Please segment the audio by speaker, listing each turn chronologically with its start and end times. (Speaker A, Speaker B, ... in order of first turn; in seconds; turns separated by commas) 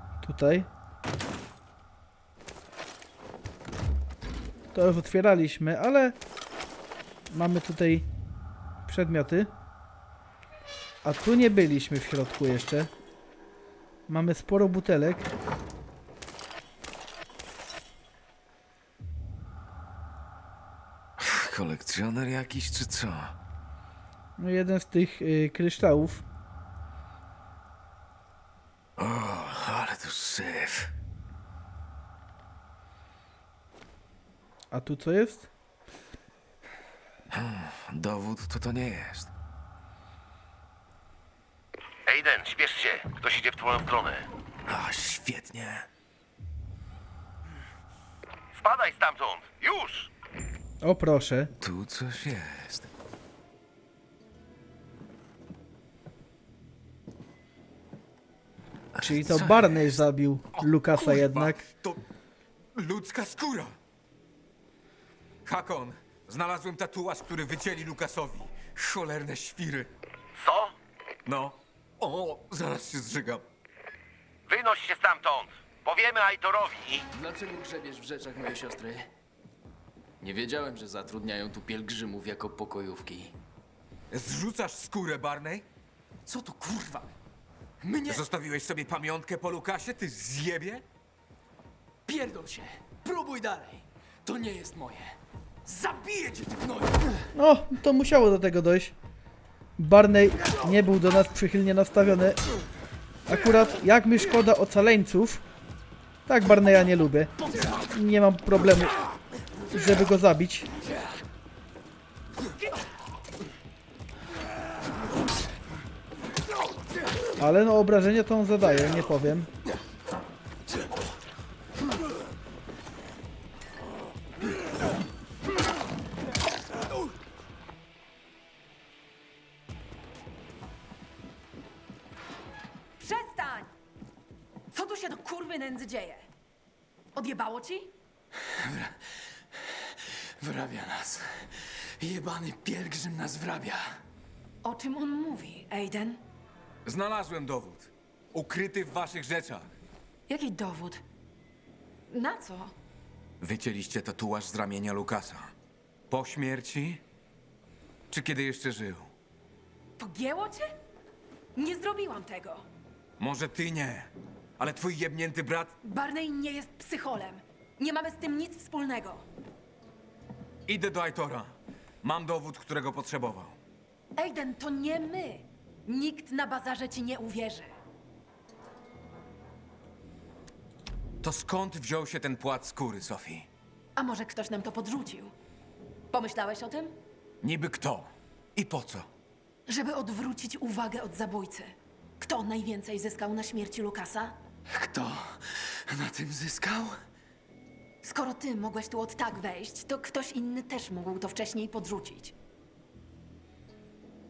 Speaker A: 0.2-0.7, Speaker A: 4.7-6.2, Speaker A: 7.3-8.1, Speaker A: 8.8-9.5, Speaker A: 11.0-12.9, Speaker A: 14.1-15.3, Speaker B: 21.2-23.3, Speaker A: 24.4-26.2, Speaker B: 29.0-30.9, Speaker A: 34.7-35.5, Speaker B: 37.3-39.3, Speaker C: 42.0-44.3, Speaker B: 44.7-45.9, Speaker C: 48.5-50.1, Speaker A: 50.8-51.5, Speaker B: 51.6-52.9, Speaker B: 59.0-60.0, Speaker A: 59.0-61.6, Speaker B: 60.6-62.0, Speaker B: 62.7-63.7, Speaker B: 65.4-69.9, Speaker C: 70.4-70.7, Speaker B: 71.2-73.4, Speaker C: 74.5-77.0, Speaker D: 77.1-79.1, Speaker D: 80.2-83.3, Speaker B: 84.1-85.7, Speaker D: 86.3-87.0, Speaker D: 87.8-88.2, Speaker B: 88.1-90.8, Speaker D: 92.0-97.2, Speaker A: 97.3-98.9, Speaker A: 99.8-102.4, Speaker A: 103.3-105.4, Speaker A: 106.3-107.3, Speaker A: 107.9-108.9, Speaker A: 109.7-110.7, Speaker A: 117.4-119.5, Speaker E: 133.0-133.7, Speaker E: 134.7-136.2, Speaker E: 137.1-137.9, Speaker D: 138.4-139.0, Speaker D: 139.5-143.8, Speaker E: 144.6-146.2, Speaker B: 146.8-149.7, Speaker E: 150.3-151.0, Speaker E: 152.1-152.7, Speaker B: 153.4-155.5, Speaker B: 156.1-157.0, Speaker B: 158.1-159.1, Speaker E: 160.0-160.7, Speaker E: 161.5-162.7, Speaker B: 163.2-165.7, Speaker E: 165.8-169.2, Speaker B: 170.7-173.6, Speaker E: 174.2-177.7, Speaker B: 181.2-183.5, Speaker E: 183.9-185.3, Speaker E: 186.1-186.9, Speaker B: 187.4-189.1, Speaker E: 189.7-194.3, Speaker D: 194.7-197.0, Speaker E: 198.0-202.3